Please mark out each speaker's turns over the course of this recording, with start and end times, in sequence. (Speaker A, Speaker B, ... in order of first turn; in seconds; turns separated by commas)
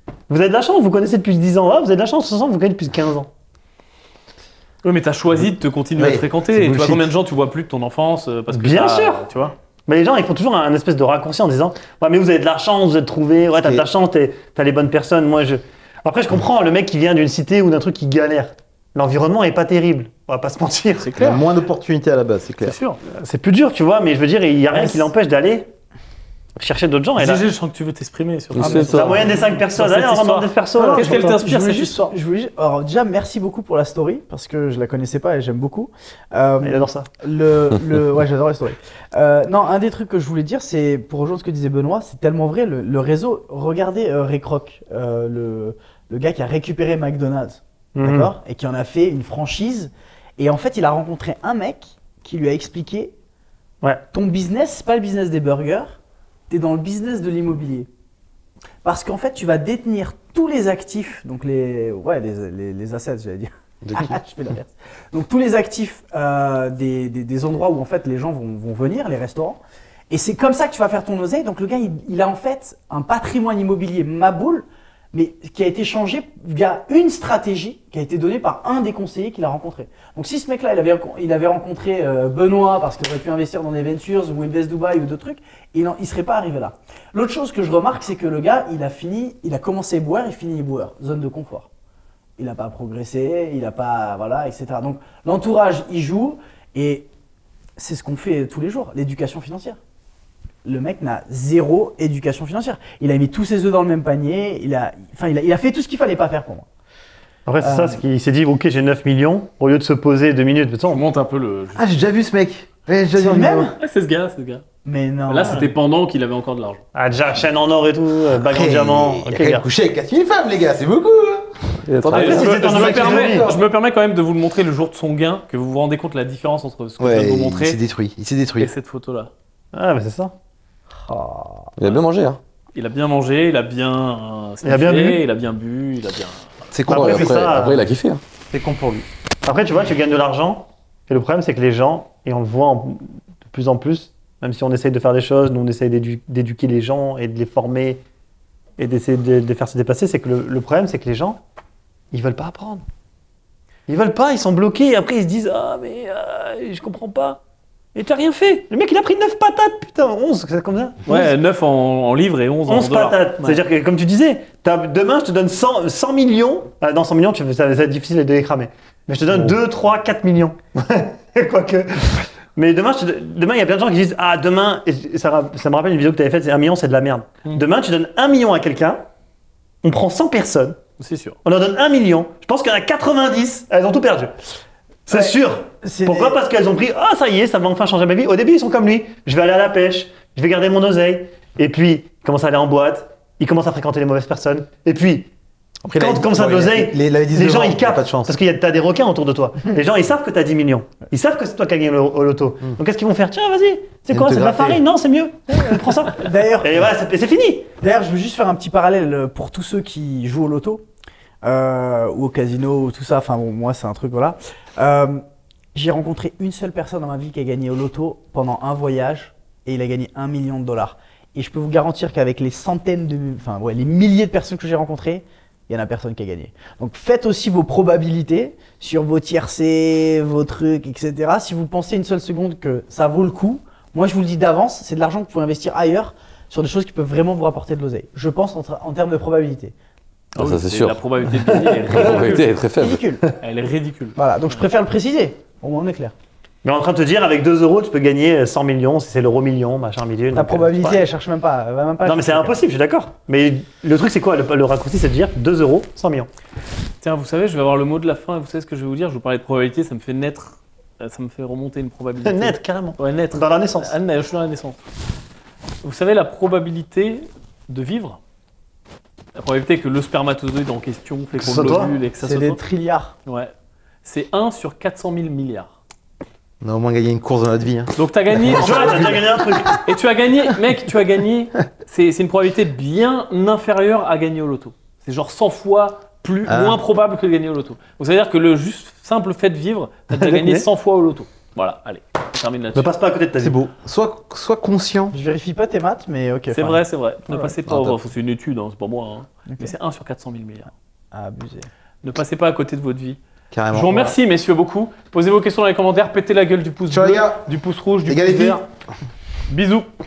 Speaker A: 0.3-3.3, Speaker B: 4.8-9.5, Speaker C: 6.0-7.1, Speaker A: 8.5-9.3, Speaker A: 9.9-21.4, Speaker C: 13.5-13.8, Speaker B: 21.0-21.4, Speaker C: 21.1-22.8, Speaker B: 22.6-23.0, Speaker A: 23.1-25.7, Speaker D: 24.7-25.1, Speaker A: 26.6-27.4, Speaker B: 27.2-32.1, Speaker E: 28.5-29.2, Speaker D: 28.6-28.9, Speaker A: 28.7-31.2, Speaker D: 30.8-53.1, Speaker A: 36.6-37.1, Speaker A: 48.0-48.3, Speaker D: 54.1-56.0, Speaker D: 56.5-57.9, Speaker D: 58.8-91.7, Speaker C: 63.8-64.2, Speaker D: 92.4-97.1, Speaker D: 97.8-99.8, Speaker D: 100.6-106.7, Speaker A: 107.5-111.0, Speaker D: 107.6-108.0, Speaker B: 110.9-111.8, Speaker C: 111.7-113.7, Speaker D: 113.1-113.7, Speaker B: 113.8-114.6, Speaker D: 114.8-115.7, Speaker B: 115.3-116.8, Speaker A: 116.9-119.7, Speaker C: 118.4-123.6, Speaker E: 121.8-122.5, Speaker B: 122.0-127.8, Speaker A: 122.1-123.5, Speaker C: 127.0-128.7, Speaker B: 128.6-129.3, Speaker A: 129.7-130.3, Speaker D: 131.0-131.7, Speaker E: 131.8-132.4, Speaker B: 132.7-136.4, Speaker A: 134.6-135.2, Speaker C: 136.7-137.6, Speaker A: 136.9-137.9, Speaker E: 136.9-138.2, Speaker C: 138.5-139.1, Speaker A: 139.4-148.0, Speaker A: 148.8-151.4, Speaker A: 152.1-152.8, Speaker A: 153.9-157.4, Speaker A: 157.9-161.3, Speaker B: 161.1-163.6, Speaker A: 162.7-179.0, Speaker A: 179.8-180.8, Speaker B: 181.0-181.4, Speaker A: 181.4-184.3, Speaker A: 185.1-195.3, Speaker D: 185.1-186.4, Speaker C: 195.8-198.3, Speaker A: 195.9-207.7, Speaker C: 204.1-204.8, Speaker D: 206.1-206.9, Speaker D: 207.8-210.8, Speaker D: 211.4-215.2, Speaker D: 215.7-239.7, Speaker B: 240.3-242.6, Speaker E: 240.4-241.0, Speaker A: 241.6-242.0, Speaker E: 241.9-243.4, Speaker D: 242.8-243.2, Speaker B: 243.4-244.2, Speaker D: 244.2-246.1, Speaker A: 246.6-251.0, Speaker D: 250.3-252.6, Speaker A: 252.0-256.3, Speaker B: 257.0-264.8, Speaker A: 262.2-263.9, Speaker B: 265.8-268.2, Speaker B: 269.3-272.6, Speaker A: 271.4-271.9, Speaker D: 272.2-273.1, Speaker B: 273.2-273.5, Speaker B: 274.0-275.7, Speaker C: 276.6-279.8, Speaker B: 277.9-292.9, Speaker A: 278.5-279.8, Speaker C: 286.5-286.8, Speaker A: 290.2-290.6, Speaker A: 292.7-293.6, Speaker C: 293.4-295.1, Speaker D: 295.1-297.5, Speaker B: 296.5-300.7, Speaker C: 297.7-298.0, Speaker D: 301.1-301.7, Speaker B: 302.0-303.2, Speaker C: 303.5-304.2, Speaker B: 303.7-308.6, Speaker C: 306.9-307.5, Speaker C: 308.1-308.6, Speaker B: 309.5-309.9